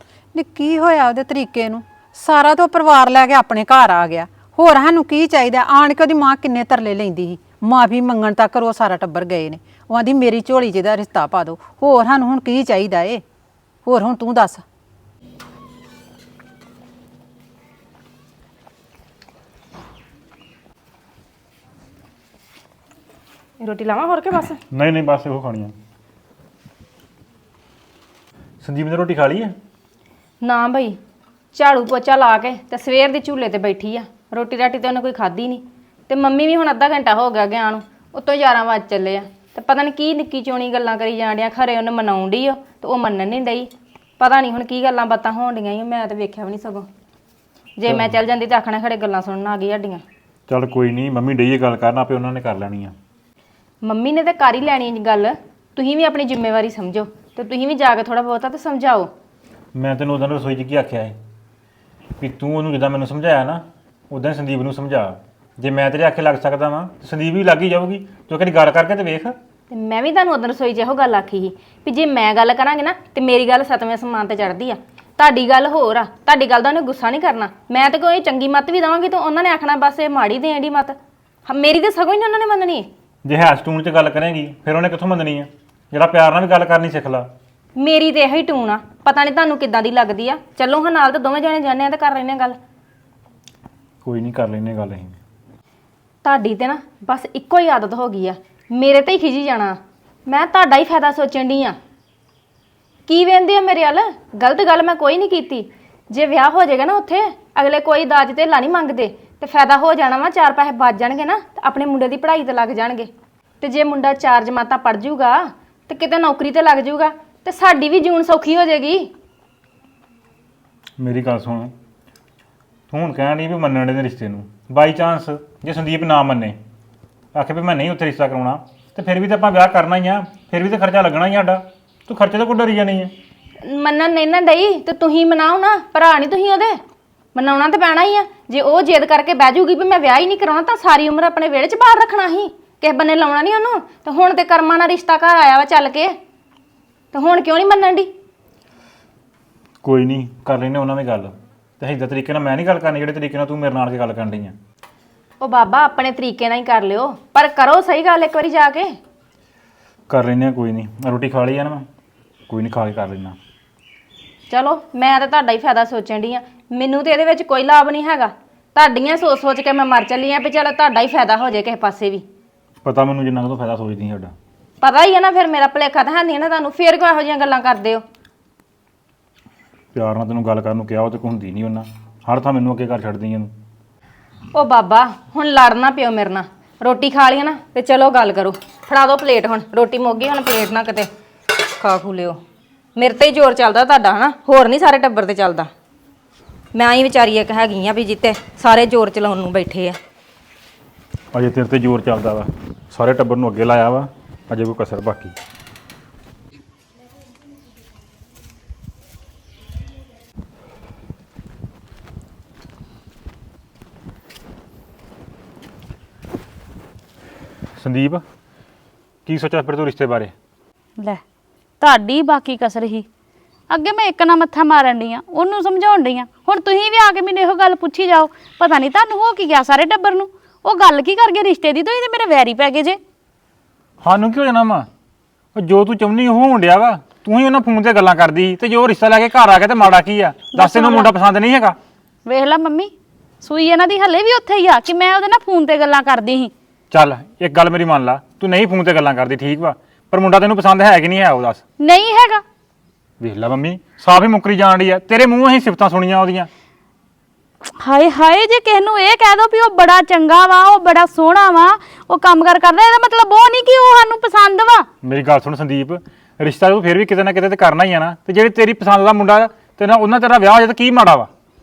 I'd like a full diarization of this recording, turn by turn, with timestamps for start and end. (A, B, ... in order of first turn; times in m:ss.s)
0:00.3-0:13.2 A
0:13.8-0:14.6 A
0:23.6-0:24.6 B
0:24.7-0:25.7 C
0:28.6-0:29.5 C
0:30.4-0:31.0 B
0:31.5-0:46.9 B
0:47.8-0:50.0 B
0:47.8-0:48.2 C
0:50.5-0:52.9 C
0:53.8-0:59.1 B
0:59.7-1:01.1 C
1:02.2-1:09.4 C
1:09.7-1:20.9 B
1:21.5-1:22.9 B
1:23.2-1:27.3 C
1:27.8-1:32.6 B
1:34.0-1:35.2 C
1:36.2-1:41.8 B
1:43.1-1:53.1 B
1:53.6-1:55.4 B
1:55.9-1:59.1 B
2:01.0-2:01.7 C
2:02.9-2:06.6 C
2:07.3-2:13.1 C
2:13.7-2:16.8 B
2:17.3-2:26.1 B
2:27.1-2:28.1 B
2:29.8-2:34.6 C
2:35.4-2:38.9 B
2:40.1-2:41.9 C
2:42.5-2:43.4 C
2:44.5-2:52.2 B
2:52.8-2:54.3 C
2:54.8-2:58.0 B
2:59.9-3:03.5 C
3:04.5-3:11.1 B
3:11.8-3:12.4 B
3:13.0-3:15.7 B
3:16.7-3:20.0 B
3:21.3-3:25.3 C
3:37.8-3:38.2 C
3:39.2-3:40.3 C
3:41.8-3:43.1 D
3:43.7-3:53.0 D
3:54.0-3:54.9 C
3:55.6-4:01.8 C
4:00.5-4:01.1 D
4:02.2-4:06.5 D
4:06.9-4:11.6 C
4:11.8-4:12.4 D
4:13.2-4:16.5 C
4:17.7-4:24.9 D
4:25.0-4:31.3 C